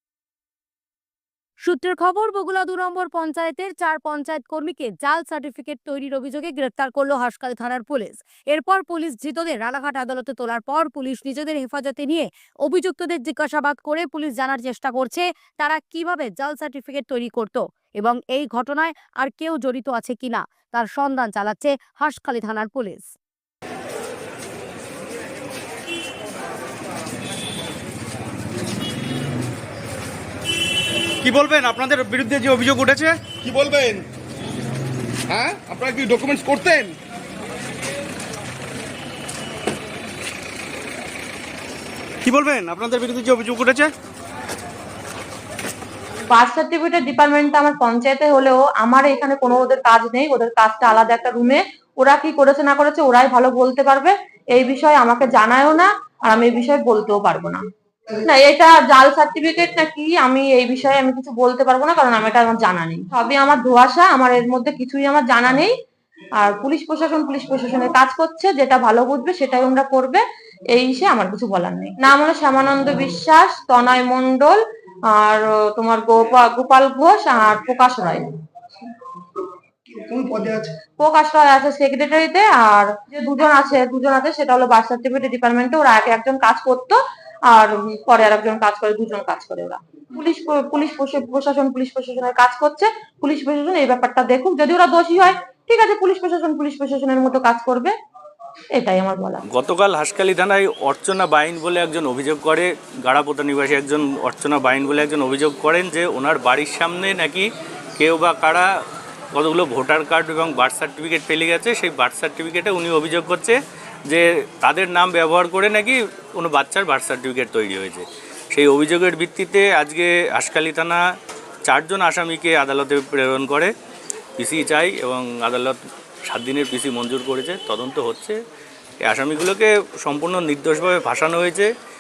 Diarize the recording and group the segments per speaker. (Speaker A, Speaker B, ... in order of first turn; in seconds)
Speaker A: 1.6-23.1
Speaker B: 31.2-33.2, 42.2-43.9
Speaker C: 33.3-34.1, 35.3-37.0
Speaker D: 46.3-57.6, 58.2-65.7, 66.4-74.6, 75.1-78.3, 81.0-87.0, 87.5-97.9, 98.8-99.4
Speaker E: 99.5-108.7, 109.3-113.5, 114.1-121.0, 121.7-123.7, 124.4-128.4, 129.0-131.7